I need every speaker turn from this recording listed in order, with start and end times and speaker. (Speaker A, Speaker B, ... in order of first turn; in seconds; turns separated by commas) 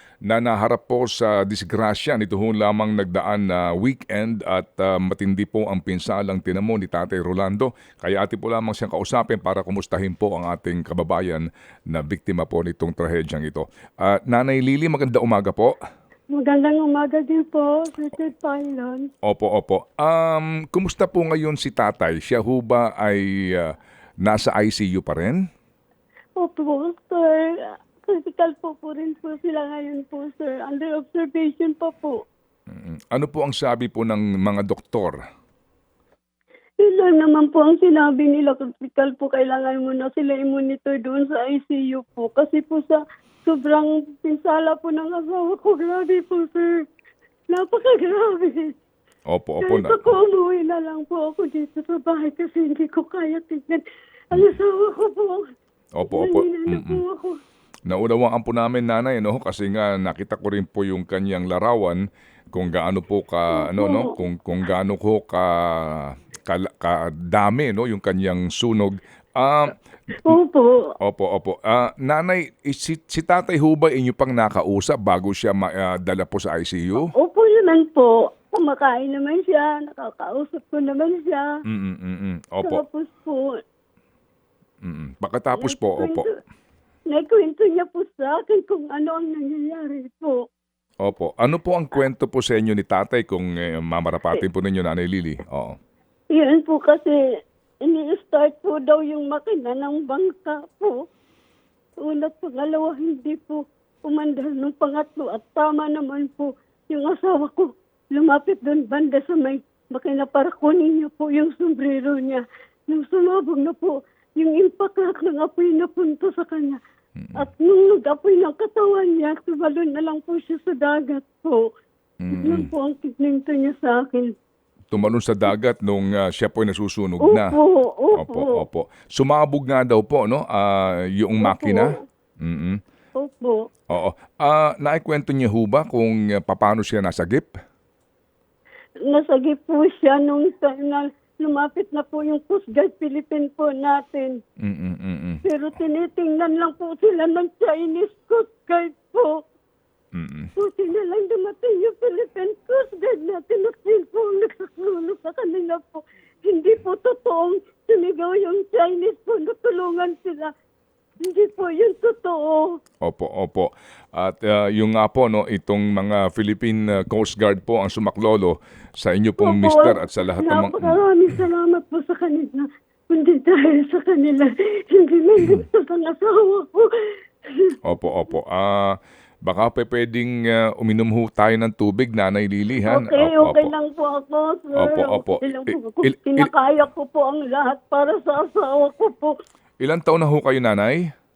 Speaker A: 0.3-15.7, Speaker B: 16.3-19.1, Speaker A: 19.3-25.4, Speaker B: 26.4-32.2, Speaker A: 32.7-35.2, Speaker B: 36.8-46.7, Speaker B: 47.5-48.7, Speaker A: 49.3-50.0, Speaker B: 49.6-53.8, Speaker B: 54.3-55.4, Speaker A: 56.0-57.0, Speaker B: 56.1-57.4, Speaker A: 57.9-62.0, Speaker A: 62.5-69.7, Speaker B: 63.5-64.2, Speaker B: 70.2-70.8, Speaker A: 71.0-77.1, Speaker B: 77.1-81.5, Speaker A: 81.7-82.8, Speaker B: 82.6-83.6, Speaker A: 84.8-86.2, Speaker B: 85.5-86.3, Speaker B: 87.1-90.4, Speaker A: 91.0-95.8, Speaker B: 96.3-97.1, Speaker B: 97.9-100.9, Speaker B: 102.0-116.8, Speaker B: 117.4-121.6, Speaker A: 122.2-122.7, Speaker B: 122.4-124.3, Speaker A: 124.9-127.5, Speaker B: 127.2-128.6, Speaker A: 128.2-132.8, Speaker B: 131.4-131.9, Speaker B: 133.2-133.6, Speaker A: 133.9-137.5, Speaker B: 139.1-144.4, Speaker A: 144.6-145.4, Speaker B: 145.4-149.3, Speaker A: 150.2-150.5, Speaker B: 150.6-160.5, Speaker B: 161.2-162.7, Speaker A: 163.1-171.0, Speaker B: 169.4-176.8, Speaker A: 177.9-178.9, Speaker A: 179.5-183.7, Speaker B: 182.9-189.3, Speaker A: 184.8-186.5, Speaker A: 189.8-191.0